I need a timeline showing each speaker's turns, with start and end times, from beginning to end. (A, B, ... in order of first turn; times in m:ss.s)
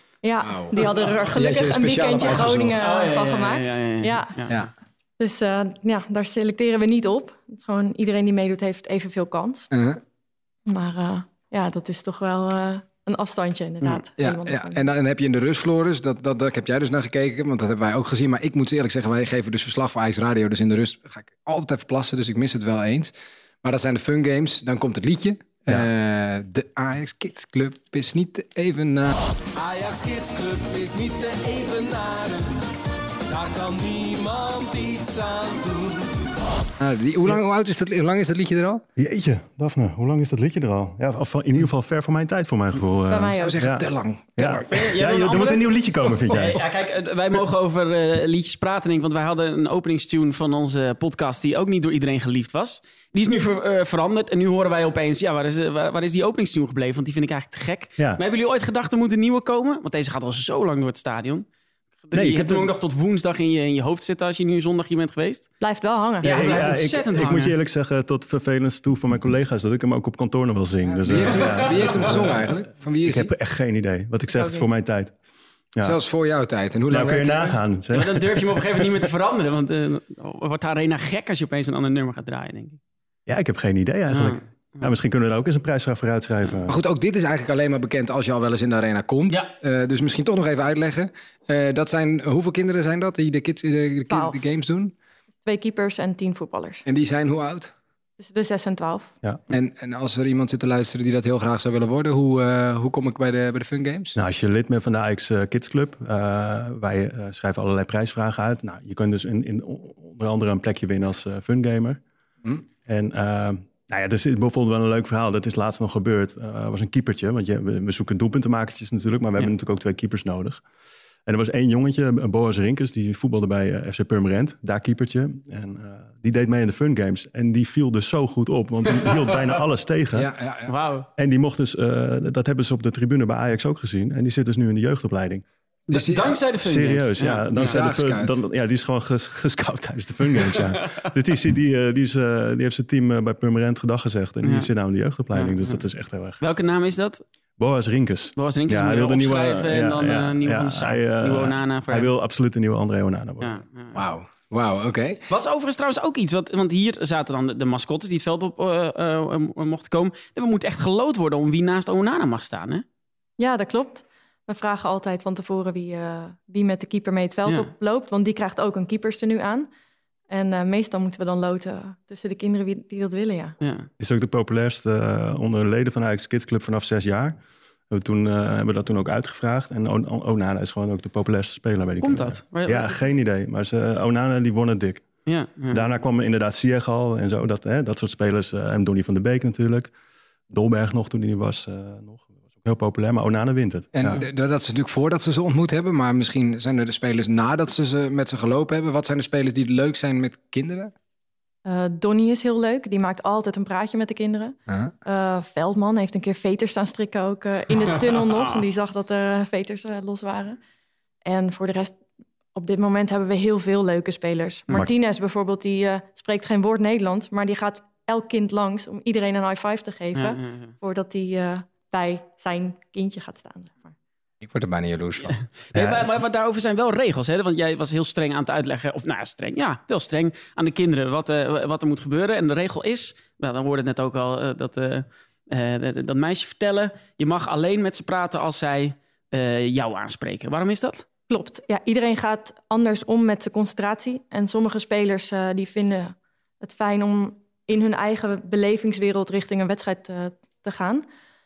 0:00.2-0:04.3 A
0:00.4-0:02.9 B
0:02.8-0:04.7 C
0:05.2-0:09.7 A
0:09.7-0:10.0 B
0:10.7-0:14.8 A
0:14.2-0:23.1 B
0:23.6-0:29.2 B
0:29.6-0:32.6 D
0:33.3-0:36.2 D
0:36.8-0:38.8 B
0:39.0-0:43.8 E
0:43.1-0:43.6 A
0:43.4-0:44.7 B
0:44.4-0:46.6 E
0:44.7-0:45.7 C
0:46.3-1:01.4 C
1:02.0-1:05.5 C
1:02.1-1:02.7 E
1:05.6-1:06.6 A
1:06.2-1:07.5 C
1:06.2-1:12.5 E
1:11.0-1:13.3 B
1:13.0-1:15.1 E
1:15.8-1:17.6 B
1:16.9-1:18.9 E
1:17.9-1:22.8 C
1:23.3-1:26.8 E
1:24.1-1:24.9 C
1:26.7-1:34.9 B
1:34.1-1:34.4 A
1:35.4-1:36.8 A
1:36.8-1:37.7 B
1:38.2-1:39.1 A
1:39.5-1:44.1 B
1:44.1-1:52.0 E
1:52.8-2:00.6 E
2:01.2-2:10.3 E
2:10.2-2:10.7 B
2:10.7-2:11.1 C
2:11.2-2:15.4 E
2:15.9-2:17.8 C
2:15.9-2:16.4 B
2:16.6-2:26.4 E
2:17.6-2:18.4 B
2:24.4-2:24.7 C
2:25.3-2:25.8 C
2:26.4-2:27.2 C
2:27.6-2:33.6 E
2:28.4-2:32.1 C
2:33.4-2:34.0 C
2:33.9-2:35.2 B
2:35.3-2:42.8 C
2:43.4-2:49.7 A
2:50.3-2:53.6 A
2:53.6-2:53.9 C
2:54.0-2:57.4 E
2:57.9-3:05.0 E
3:02.0-3:03.0 C
3:05.2-3:05.8 C
3:05.7-3:09.9 E
3:10.5-3:14.2 E
3:13.9-3:20.9 B
3:21.6-3:30.6 A
3:24.7-3:24.9 B
3:31.2-3:31.9 A
3:32.5-3:43.9 A
3:40.1-3:40.7 C
3:44.4-3:45.4 B
3:45.7-4:01.0 C
3:45.7-3:46.0 E
4:01.3-4:11.0 A